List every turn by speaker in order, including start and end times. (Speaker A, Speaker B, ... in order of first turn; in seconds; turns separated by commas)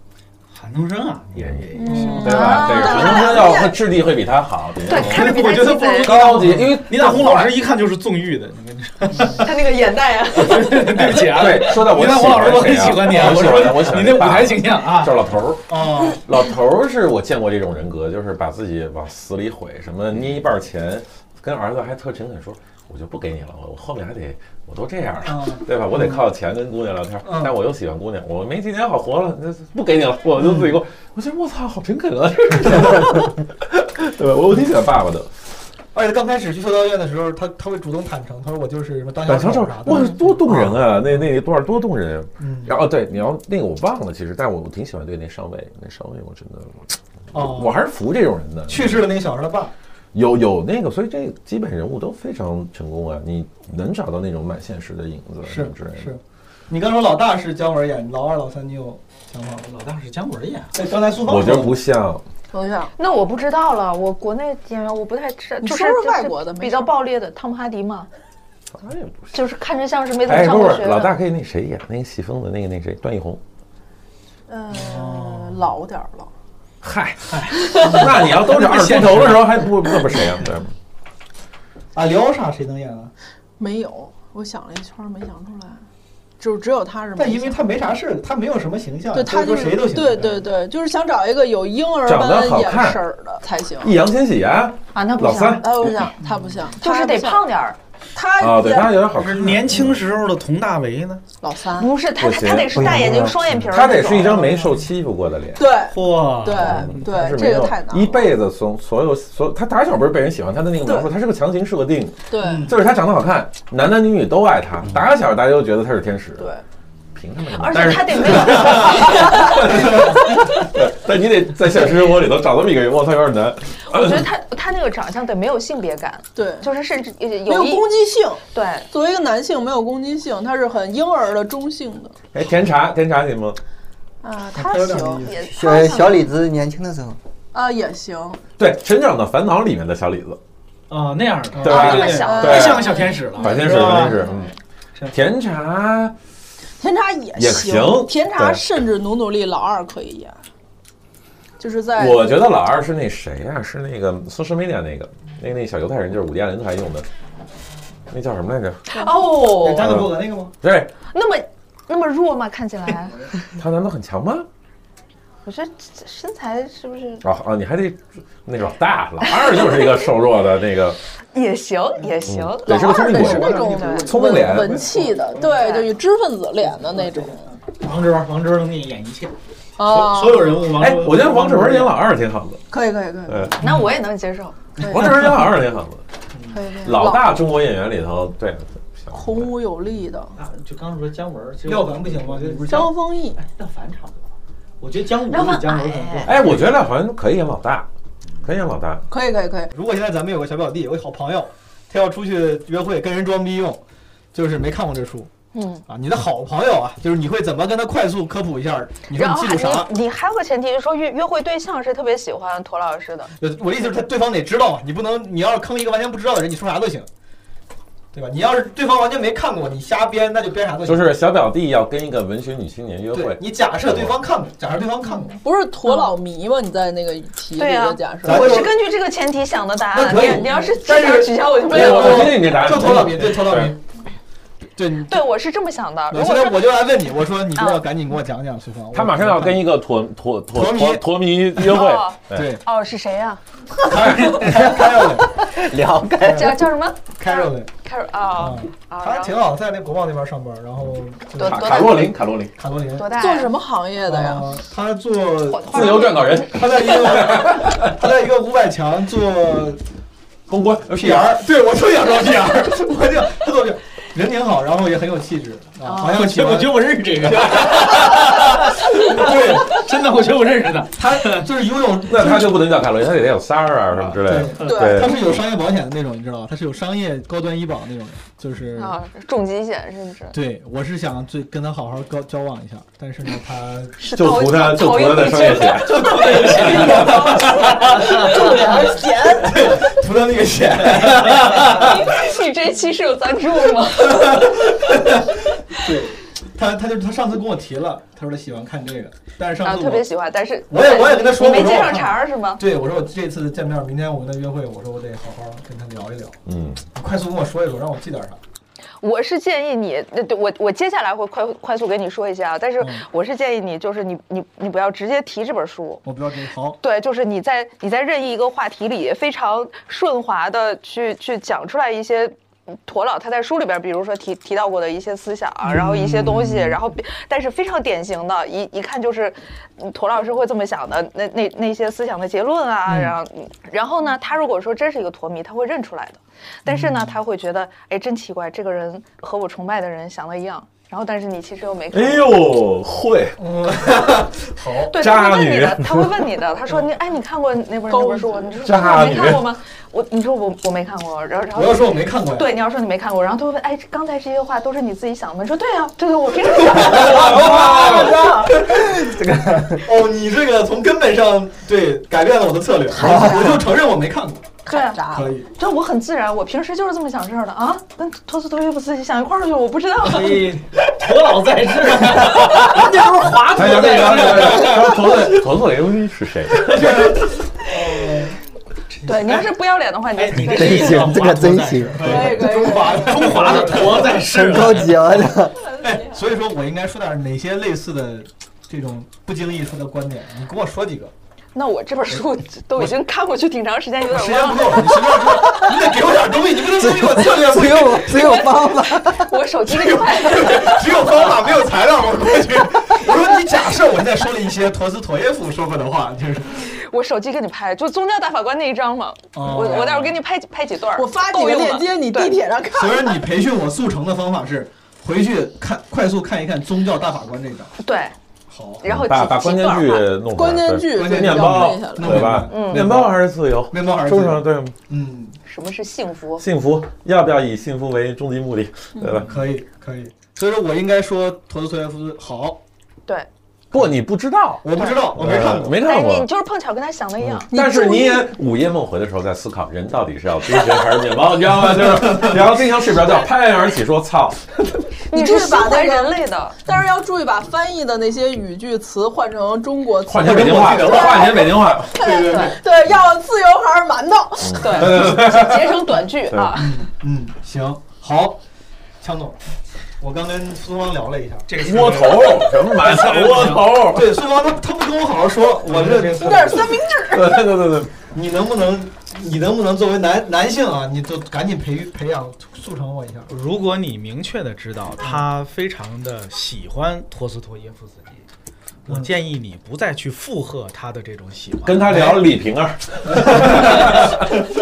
Speaker A: 0.5-2.4, Speaker B: 1.4-7.5, Speaker C: 1.8-3.8, Speaker D: 1.9-2.2, Speaker E: 2.2-3.7, Speaker E: 4.9-6.4, Speaker A: 4.9-9.5, Speaker D: 5.4-6.7, Speaker E: 9.3-11.0, Speaker A: 10.3-15.3, Speaker B: 11.3-35.4, Speaker D: 15.7-16.2, Speaker D: 25.2-26.2, Speaker D: 27.2-27.5, Speaker D: 30.4-30.7, Speaker D: 35.9-40.9, Speaker B: 39.2-49.1, Speaker E: 39.9-40.1, Speaker D: 42.4-42.8, Speaker D: 47.3-47.8, Speaker D: 48.7-49.7, Speaker B: 50.1-56.2, Speaker D: 55.4-59.6, Speaker A: 59.6-60.7, Speaker D: 60.7-61.8, Speaker B: 61.2-62.2, Speaker C: 62.5-62.9, Speaker E: 63.0-68.1, Speaker C: 65.6-67.0, Speaker B: 68.8-69.4, Speaker E: 69.3-71.2, Speaker B: 70.3-73.4, Speaker C: 74.5-76.3, Speaker B: 76.8-80.8, Speaker A: 77.8-79.7, Speaker D: 77.8-78.2, Speaker D: 82.0-83.1, Speaker C: 83.6-85.8, Speaker C: 86.4-87.6, Speaker D: 87.2-90.5, Speaker C: 89.1-94.0, Speaker B: 92.1-93.0, Speaker B: 93.8-96.0, Speaker E: 94.9-95.9, Speaker C: 95.6-97.5, Speaker E: 96.8-97.8, Speaker C: 98.2-99.0, Speaker B: 98.4-100.0, Speaker A: 99.2-101.2, Speaker C: 101.4-101.9, Speaker E: 101.8-104.5, Speaker B: 102.2-105.7, Speaker F: 102.8-103.4, Speaker C: 105.6-108.3, Speaker A: 105.9-107.0, Speaker B: 106.5-116.5, Speaker C: 110.8-111.1, Speaker C: 112.3-112.7, Speaker D: 112.4-112.8, Speaker C: 116.4-116.6, Speaker B: 117.1-124.3, Speaker E: 117.5-120.0, Speaker E: 123.9-127.9, Speaker C: 126.4-126.7, Speaker C: 127.5-132.2, Speaker E: 128.5-128.9, Speaker B: 132.3-133.6, Speaker C: 134.2-135.3, Speaker D: 134.6-135.4, Speaker E: 135.2-136.3, Speaker F: 135.5-137.2, Speaker C: 137.5-138.4, Speaker B: 138.6-140.4, Speaker A: 140.9-144.2, Speaker D: 141.5-141.9, Speaker B: 141.6-144.5, Speaker E: 141.6-143.7, Speaker C: 142.2-143.1, Speaker B: 145.1-146.2, Speaker C: 146.8-150.4, Speaker B: 147.4-148.6, Speaker C: 151.6-152.5, Speaker B: 152.0-157.1, Speaker B: 158.1-158.9, Speaker E: 158.9-160.0, Speaker D: 159.6-160.5, Speaker B: 159.7-160.9, Speaker E: 161.0-163.5, Speaker B: 163.6-164.5, Speaker E: 165.4-167.2, Speaker B: 167.2-171.0, Speaker E: 169.2-170.0, Speaker E: 171.3-174.1, Speaker B: 172.3-174.9, Speaker C: 172.8-177.5, Speaker D: 173.1-175.5, Speaker E: 175.5-175.9, Speaker D: 176.8-177.5, Speaker A: 177.8-182.0, Speaker C: 179.8-180.6, Speaker B: 180.7-182.6, Speaker C: 182.7-183.6, Speaker B: 183.3-183.8, Speaker E: 183.6-184.7, Speaker B: 184.8-186.0, Speaker C: 184.8-185.3, Speaker D: 185.0-185.3, Speaker C: 186.5-187.4, Speaker B: 186.8-189.5, Speaker C: 189.1-190.4, Speaker A: 190.4-194.2, Speaker D: 191.7-192.9, Speaker C: 192.7-193.4, Speaker A: 194.8-196.8, Speaker E: 195.3-196.3, Speaker B: 196.3-197.9, Speaker B: 198.4-199.1, Speaker C: 199.1-199.7, Speaker D: 199.7-203.8, Speaker D: 204.3-205.3, Speaker E: 205.5-205.8, Speaker D: 205.9-209.9, Speaker E: 209.1-213.3, Speaker D: 213.4-217.1, Speaker D: 218.1-221.2, Speaker B: 220.8-224.2, Speaker D: 223.1-225.3, Speaker C: 225.4-228.7, Speaker E: 225.8-226.1, Speaker E: 227.6-232.6, Speaker D: 228.2-228.8, Speaker D: 229.9-233.8, Speaker B: 231.7-233.7, Speaker D: 234.8-235.2, Speaker E: 235.1-236.6, Speaker D: 236.1-239.6, Speaker E: 237.6-237.8, Speaker B: 238.9-242.5, Speaker D: 240.5-241.0, Speaker E: 241.6-243.4, Speaker D: 242.3-242.6, Speaker D: 243.8-245.3, Speaker B: 244.0-244.3, Speaker F: 245.7-246.4, Speaker D: 246.2-246.6, Speaker E: 246.2-249.3, Speaker D: 247.2-247.7, Speaker D: 248.4-252.0, Speaker E: 251.4-252.2, Speaker B: 251.4-252.5, Speaker D: 252.6-253.1, Speaker E: 252.9-253.5, Speaker C: 253.2-254.5, Speaker D: 254.1-259.8, Speaker E: 255.5-256.4, Speaker B: 255.7-257.9, Speaker B: 260.5-261.4, Speaker D: 260.9-269.8, Speaker A: 266.0-271.4, Speaker D: 270.9-272.7, Speaker B: 272.0-275.4, Speaker D: 274.1-279.0, Speaker C: 274.6-275.2, Speaker E: 278.8-280.4, Speaker D: 280.3-284.0, Speaker E: 284.0-288.9, Speaker B: 284.1-286.6, Speaker D: 285.9-292.1, Speaker C: 288.7-289.7, Speaker E: 291.6-294.7, Speaker D: 294.1-300.1, Speaker E: 299.6-302.6, Speaker D: 300.7-306.4, Speaker B: 306.5-306.9, Speaker D: 306.9-308.4, Speaker E: 309.0-316.0, Speaker D: 316.1-316.8, Speaker E: 316.8-342.4, Speaker D: 325.6-326.8, Speaker D: 332.9-333.1, Speaker D: 336.7-337.2, Speaker B: 341.9-343.4, Speaker D: 343.4-344.9, Speaker E: 344.9-358.6, Speaker B: 345.0-346.3, Speaker C: 347.9-348.5, Speaker B: 348.6-349.5, Speaker D: 351.5-352.5, Speaker D: 356.5-359.2, Speaker B: 356.9-358.3, Speaker F: 359.0-359.8, Speaker D: 359.8-364.6, Speaker E: 362.9-363.7, Speaker C: 364.7-365.3, Speaker E: 364.7-370.5, Speaker D: 365.1-365.5, Speaker A: 370.0-374.9, Speaker B: 373.5-377.2, Speaker D: 376.7-378.4, Speaker E: 379.0-381.1, Speaker A: 380.1-385.1, Speaker F: 380.4-382.4, Speaker D: 382.0-384.2, Speaker C: 382.0-383.4, Speaker F: 384.1-385.6, Speaker D: 385.8-391.1, Speaker E: 391.6-395.7, Speaker D: 394.1-398.5, Speaker F: 396.8-399.3, Speaker E: 399.1-401.3, Speaker D: 399.7-406.7, Speaker E: 406.6-412.4, Speaker D: 409.4-410.2, Speaker C: 410.9-413.3, Speaker D: 412.8-417.7, Speaker E: 417.8-418.1, Speaker D: 418.5-418.8, Speaker E: 418.8-420.1, Speaker B: 418.9-424.8, Speaker C: 420.4-422.3, Speaker D: 420.9-425.4, Speaker E: 422.5-422.9, Speaker E: 425.5-426.4, Speaker B: 426.4-429.4, Speaker D: 429.2-432.6, Speaker B: 433.7-436.3, Speaker D: 434.6-435.8, Speaker E: 435.8-437.5, Speaker B: 437.4-444.8, Speaker C: 437.5-438.3, Speaker D: 441.7-442.4, Speaker E: 445.1-446.6, Speaker C: 445.1-454.9, Speaker B: 450.1-452.0, Speaker D: 450.2-452.6, Speaker B: 454.4-456.6, Speaker E: 454.6-456.9, Speaker D: 456.6-458.4, Speaker D: 459.0-459.4, Speaker D: 460.0-461.5, Speaker A: 461.5-463.7, Speaker B: 461.6-464.1, Speaker D: 463.4-466.7, Speaker A: 465.7-466.5, Speaker C: 466.2-467.5, Speaker B: 467.0-468.0, Speaker D: 468.1-473.3, Speaker A: 473.3-478.2, Speaker A: 478.9-482.1, Speaker B: 481.6-484.2, Speaker D: 481.9-482.3, Speaker D: 483.2-483.8, Speaker A: 483.4-484.0